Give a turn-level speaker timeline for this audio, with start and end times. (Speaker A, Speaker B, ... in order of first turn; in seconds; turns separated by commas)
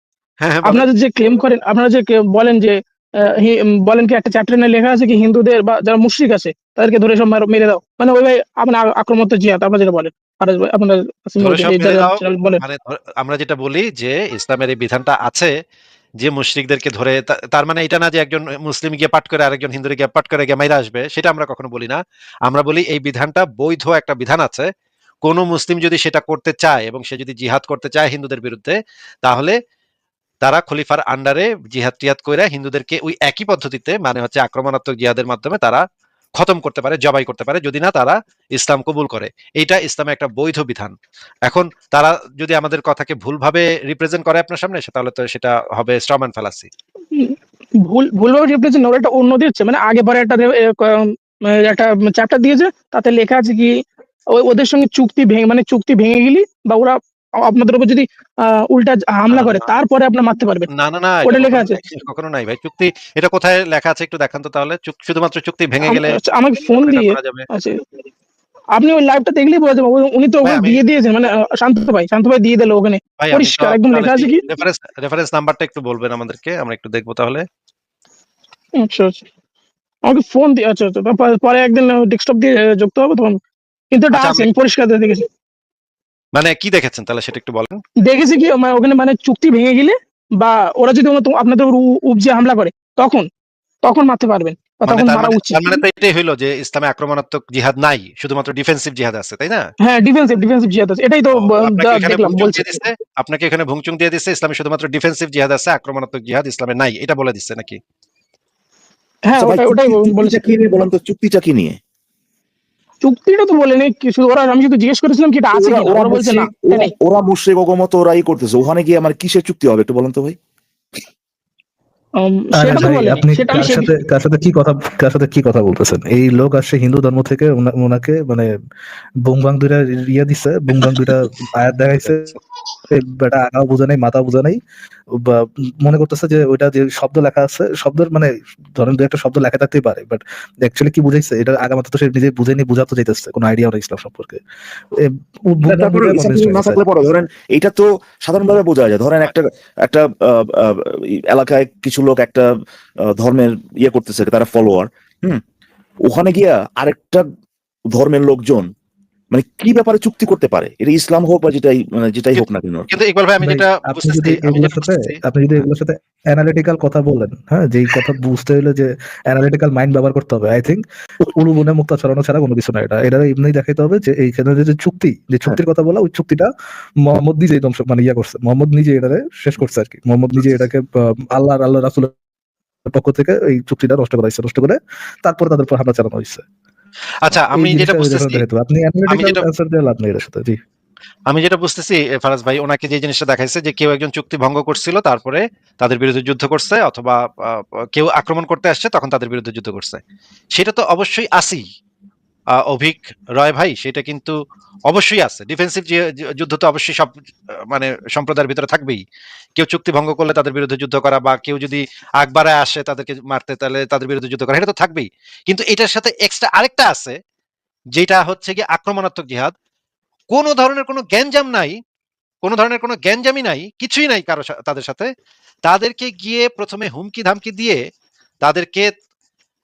Speaker A: 0.4-0.8, Speaker B: 0.6-12.6, Speaker A: 11.4-15.5, Speaker A: 16.2-24.7, Speaker A: 25.2-29.6, Speaker A: 30.4-35.8, Speaker A: 36.4-40.9, Speaker A: 41.5-46.7, Speaker B: 47.1-60.7, Speaker A: 59.3-59.7, Speaker A: 60.7-66.2, Speaker B: 61.2-61.8, Speaker B: 65.8-67.8, Speaker A: 66.7-67.5, Speaker B: 68.7-74.4, Speaker A: 70.4-70.8, Speaker A: 73.2-77.4, Speaker B: 78.8-79.3, Speaker B: 80.0-83.4, Speaker B: 83.9-85.3, Speaker A: 84.1-84.5, Speaker A: 86.3-87.8, Speaker B: 88.0-93.3, Speaker B: 93.8-95.8, Speaker A: 94.8-99.7, Speaker B: 99.8-102.8, Speaker A: 101.3-107.8, Speaker B: 109.2-110.8, Speaker C: 109.3-111.8, Speaker B: 113.0-116.9, Speaker C: 115.5-120.4, Speaker B: 122.2-123.9, Speaker D: 122.5-128.5, Speaker D: 129.2-132.3, Speaker D: 132.9-134.6, Speaker D: 135.1-144.4, Speaker D: 144.9-146.8, Speaker C: 145.6-152.5, Speaker C: 153.0-155.4, Speaker C: 156.0-157.3, Speaker C: 157.9-158.7, Speaker C: 159.3-162.9, Speaker A: 162.4-165.2, Speaker D: 163.4-176.5, Speaker D: 177.0-182.1, Speaker D: 182.9-186.4, Speaker A: 187.2-188.4, Speaker D: 187.5-190.6, Speaker A: 189.1-189.4, Speaker A: 191.3-200.0, Speaker A: 200.5-201.6, Speaker A: 202.6-204.4, Speaker A: 204.9-209.0, Speaker A: 209.6-217.2, Speaker A: 217.9-219.5, Speaker A: 220.3-221.8, Speaker A: 222.4-225.1, Speaker A: 225.7-227.8, Speaker A: 228.4-228.9